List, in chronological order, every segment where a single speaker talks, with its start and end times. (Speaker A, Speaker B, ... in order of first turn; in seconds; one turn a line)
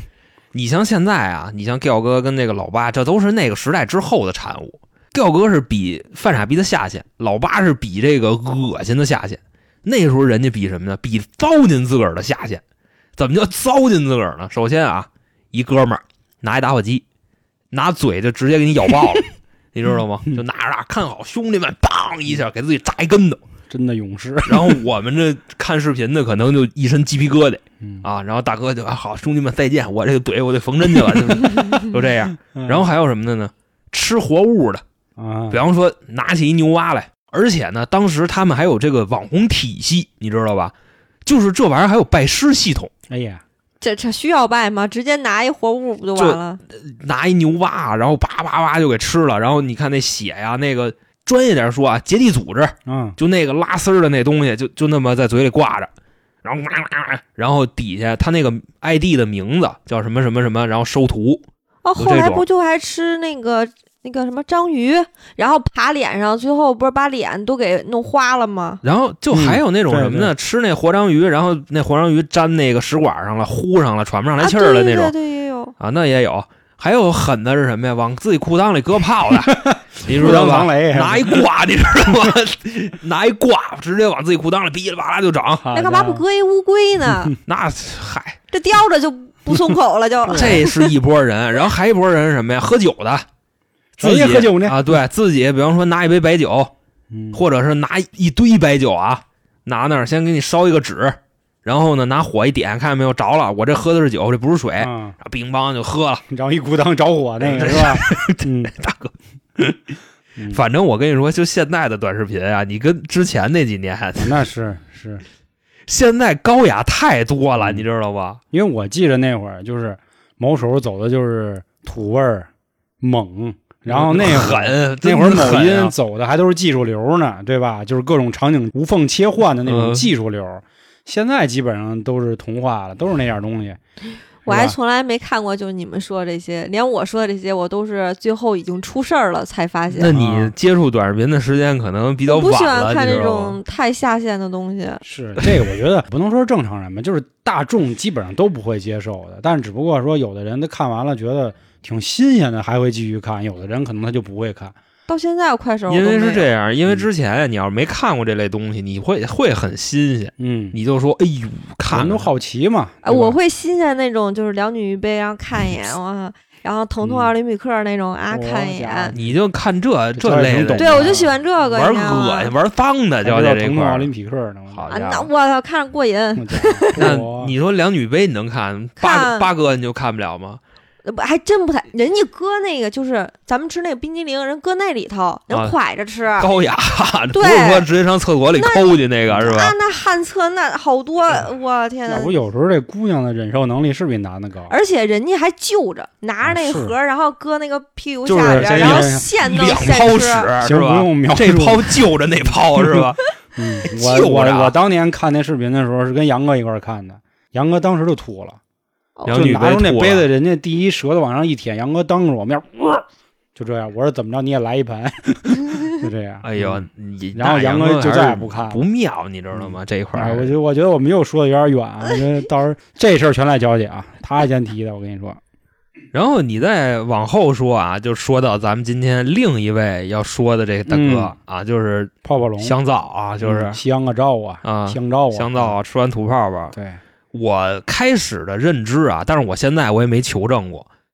Speaker A: 0.5-12.6
Speaker A: 13.2-17.0
Speaker A: 17.7-23.4
Speaker B: 23.7-24.8
Speaker A: 24.4-34.8
Speaker B: 27.8-28.1
Speaker B: 32.5-32.8
Speaker B: 35.2-35.6
Speaker A: 35.5-40.7
Speaker A: 41.2-42.9
Speaker B: 43.1-43.4
Speaker C: 43.8-46.6
Speaker A: 46.1-55.9
Speaker B: 52.9-53.2
Speaker A: 56.4-61.4
Speaker C: 61.8-68.8
Speaker A: 62.0-62.4
Speaker A: 68.8-75.1
Speaker B: 69.3-70.3
Speaker C: 74.4-75.7
Speaker A: 75.8-85.6
Speaker B: 79.4-81.4
Speaker B: 85.6-86.2
Speaker C: 85.7-87.3
Speaker A: 87.5-88.4
Speaker C: 88.5-90.9
Speaker B: 90.3-90.6
Speaker A: 90.3-93.2
Speaker B: 94.0-95.0
Speaker A: 94.0-96.7
Speaker B: 97.1-97.4
Speaker A: 97.3-106.2
Speaker B: 104.8-105.2
Speaker B: 106.3-108.7
Speaker A: 107.4-109.8
Speaker B: 110.4-110.6
Speaker A: 110.5-114.4
Speaker B: 114.2-115.2
Speaker A: 115.9-118.4
Speaker B: 117.6-117.8
Speaker B: 118.5-122.5
Speaker B: 123.0-133.8
Speaker A: 123.9-125.9
Speaker A: 129.7-130.1
Speaker C: 134.4-140.1
Speaker B: 134.5-134.7
Speaker A: 139.9-143.6
Speaker B: 140.1-140.5
Speaker C: 142.3-145.0
Speaker B: 145.0-154.8
Speaker C: 155.1-156.5
Speaker A: 155.9-162.3
Speaker B: 160.4-160.8
Speaker B: 161.9-163.4
Speaker C: 163.0-169.1
Speaker B: 167.0-167.3
Speaker B: 168.3-169.3
Speaker A: 169.1-174.1
Speaker B: 170.2-171.3
Speaker C: 170.8-172.5
Speaker B: 173.2-174.9
Speaker A: 174.7-175.3
Speaker C: 174.9-177.1
Speaker B: 176.3-177.5
Speaker A: 177.0-180.6
Speaker C: 179.0-179.5
Speaker C: 181.0-186.5
Speaker A: 186.4-189.8
Speaker C: 187.3-187.8
Speaker C: 188.5-192.3
Speaker B: 192.1-194.7
Speaker C: 194.7-200.5
Speaker B: 196.4-196.9
Speaker B: 198.2-199.2
Speaker A: 198.7-203.2
Speaker B: 200.6-202.1
Speaker B: 203.6-208.6
Speaker A: 203.9-204.8
Speaker A: 209.3-210.3
Speaker B: 209.3-218.8
Speaker A: 216.4-220.5
Speaker B: 219.5-225.4
Speaker A: 226.1-233.8
Speaker B: 230.9-231.3
Speaker B: 232.2-232.8
Speaker B: 233.4-235.8
Speaker A: 234.6-236.8
Speaker B: 236.7-237.0
Speaker A: 237.3-240.9